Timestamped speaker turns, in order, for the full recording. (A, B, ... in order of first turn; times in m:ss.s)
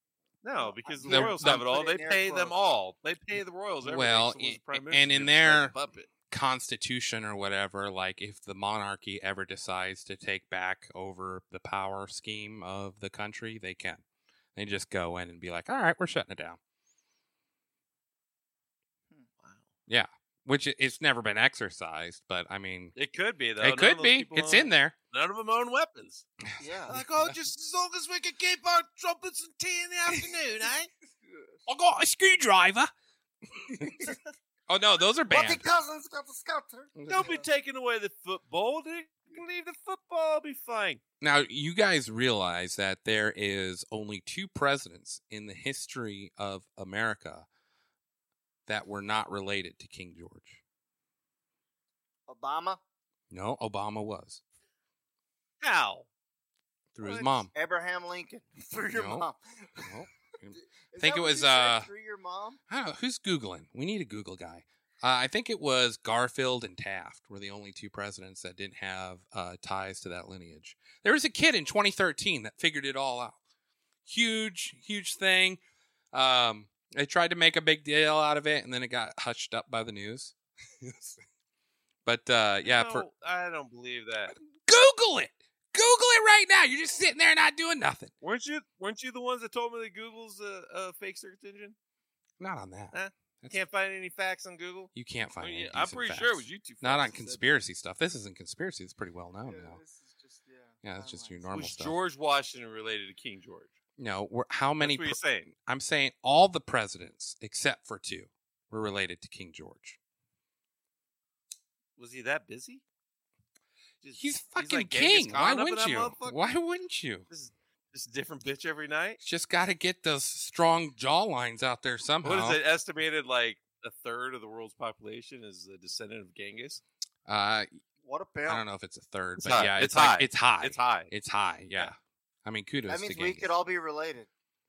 0:00.4-0:06.1 A
0:00.6-0:02.6 B
0:01.1-0:01.6 C
0:03.8-0:05.8 C
0:06.3-0:14.0 C
0:14.6-0:16.6 C
0:19.4-0:19.7 A
0:19.9-0:23.0 C
0:23.0-0:26.3 A
0:23.6-0:25.0 C
0:26.6-0:27.0 B
0:26.9-0:27.4 C
0:26.9-0:30.9 A
0:31.2-0:31.6 B
0:31.7-0:32.9 C
0:33.6-0:34.2 C
0:34.7-0:35.6 C
0:35.3-0:37.4 B
0:37.0-0:37.3 C
0:37.1-0:41.0 A
0:41.2-0:47.5 C
0:48.7-0:50.6 C
0:52.3-0:52.8 B
0:53.3-0:54.4 C
0:55.6-0:56.1 A
0:57.0-0:57.5 C
0:57.0-0:59.9 B
0:58.9-0:59.3 C
0:59.8-1:01.9 C
1:00.5-1:02.6 B
1:02.7-1:13.4 C
1:14.0-1:15.6 C
1:16.1-1:21.2 C
1:22.0-1:23.1 C
1:22.6-1:24.3 A
1:24.6-1:28.1 C
1:28.2-1:31.8 A
1:32.4-1:33.6 C
1:32.9-1:37.5 A
1:35.0-1:39.8 C
1:39.4-1:41.5 B
1:40.8-1:42.0 C
1:41.5-1:43.8 A
1:44.0-1:50.0 C
1:44.8-1:45.5 A
1:52.0-1:52.8 A
1:54.0-1:56.6 A
1:54.2-1:57.3 C
1:57.3-1:59.2 A
1:59.2-2:02.6 C
2:02.2-2:06.8 A
2:07.3-2:07.8 C
2:08.0-2:08.6 B
2:08.5-2:13.5 C
2:09.4-2:11.1 A
2:12.9-2:14.3 B